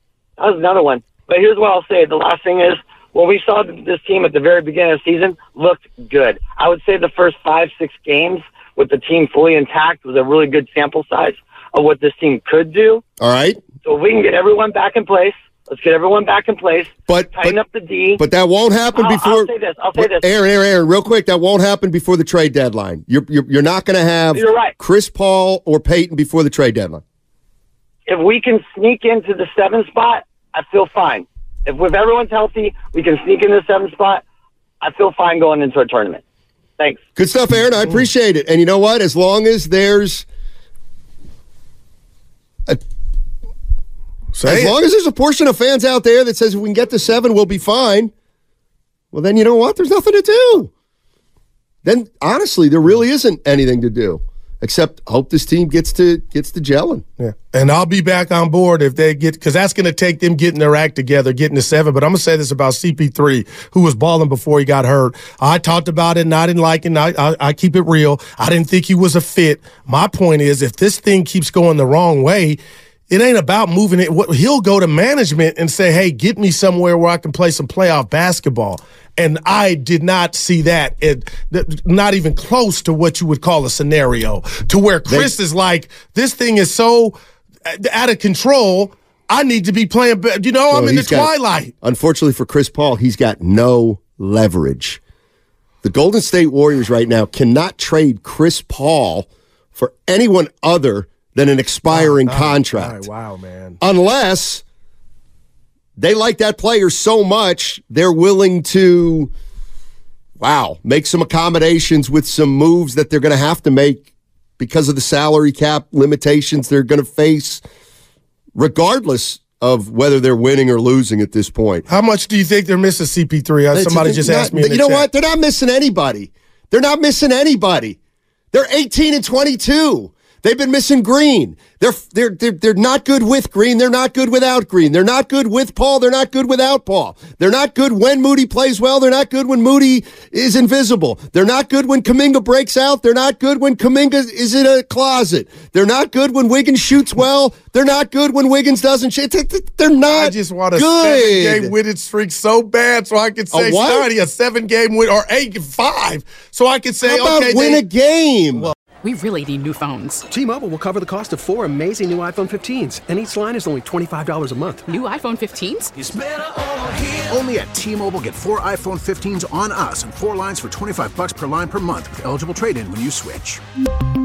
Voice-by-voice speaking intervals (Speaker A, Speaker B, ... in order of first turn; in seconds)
Speaker A: 0.4-13.0, 13.8-18.2, 18.9-20.3, 24.3-24.7, 28.1-34.2, 34.8-36.2
Speaker B: 13.2-13.6, 17.1-17.6, 18.2-27.0, 37.1-40.2, 44.4-48.1, 49.1-50.7, 51.8-57.0, 85.1-85.3, 90.7-95.0, 95.8-103.0, 103.8-104.6, 106.0-109.3, 110.4-114.1, 114.6-117.6, 118.5-121.8, 123.7-128.0, 128.5-151.7, 153.5-154.1, 157.0-158.7
Speaker C: 44.3-44.7, 57.2-87.1, 87.7-91.7, 101.9-103.8, 121.9-125.1, 150.1-157.8
Speaker D: 159.0-160.2, 164.9-165.9
Speaker E: 160.3-164.9
Speaker F: 165.9-173.6